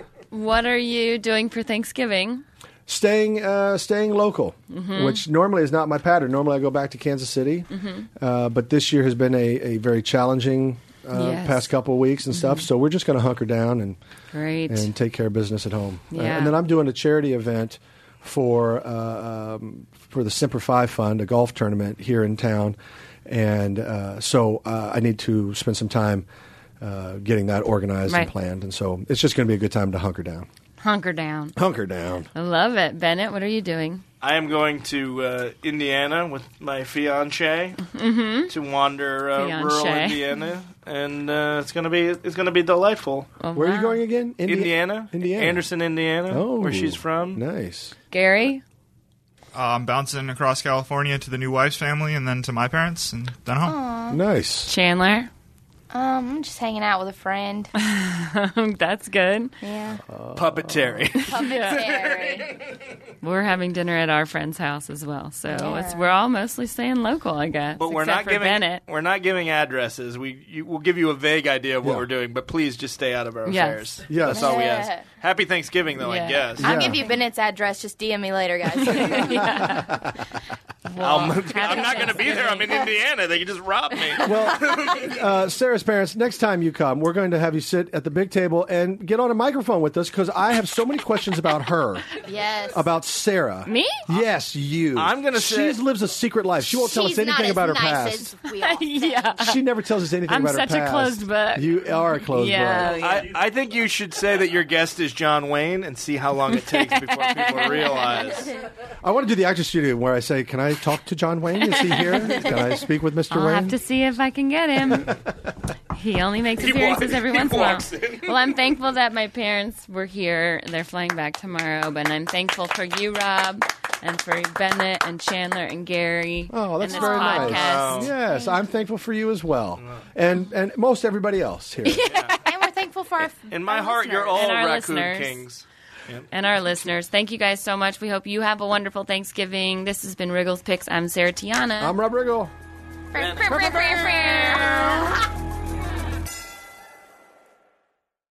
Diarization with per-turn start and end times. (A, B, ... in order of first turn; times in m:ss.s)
0:00.3-0:02.4 A
0:02.9-0:14.0 B
0:04.7-0:05.2 A
0:07.7-0:08.1 A
0:11.1-0:11.7 A
0:12.3-0:12.6 A
0:14.3-0:14.9 A
0:14.7-0:26.3 B
0:16.1-0:16.5 A
0:26.8-0:30.5 B
0:30.8-0:31.5 A
0:31.6-0:32.3 B
0:32.3-0:34.0 A
0:34.2-0:37.8 C
0:37.9-0:38.5 A
0:38.5-0:43.3 C
0:39.3-0:40.2 A
0:43.4-0:44.0 A
0:43.5-0:45.7 B
0:44.4-0:47.4 C
0:46.3-0:47.9 B
0:48.1-0:48.6 A
0:49.5-0:53.8 D
0:53.6-0:54.2 E
0:54.1-0:54.7 B
0:54.6-0:55.3 A
0:55.9-0:57.7 E
0:57.8-0:59.5 A
0:59.6-1:00.0 E
1:00.1-1:01.1 B
1:00.4-1:02.6 C
1:01.3-1:02.5 E
1:01.3-1:01.8 A
1:03.2-1:08.8 A
1:05.5-1:06.1 E
1:07.8-1:16.7 C
1:13.5-1:14.0 A
1:14.1-1:14.5 B
1:14.3-1:15.0 E
1:16.0-1:16.5 A
1:16.6-1:17.0 B
1:16.6-1:19.6 E
1:18.8-1:20.0 A
1:19.4-1:20.2 B
1:20.8-1:22.7 A
1:21.0-1:25.2 C
1:21.6-1:22.4 E
1:24.2-1:32.0 B
1:32.2-1:32.8 E
1:32.7-1:38.3 B
1:33.6-1:34.0 A
1:34.9-1:35.8 C
1:36.6-1:39.4 E
1:38.6-1:39.6 A
1:39.4-1:43.1 B
1:40.2-1:43.3 A
1:43.0-1:48.5 C
1:46.5-1:48.2 A
1:49.0-1:53.8 B
1:51.6-1:52.4 A
1:53.3-1:55.2 A
1:55.9-2:08.1 A
1:56.6-1:58.4 C
2:06.5-2:12.1 B
2:06.9-2:07.6 E
2:07.4-2:08.1 C
2:08.2-2:08.6 E
2:11.9-2:12.3 A
2:12.1-2:12.4 C
2:12.3-2:14.4 E
2:13.2-2:16.3 C
2:14.3-2:15.4 A
2:16.3-2:22.0 A
2:21.8-2:22.5 B
2:23.1-2:25.2 E
2:23.2-2:23.8 C
2:23.5-2:24.4 B
2:23.6-2:24.8 A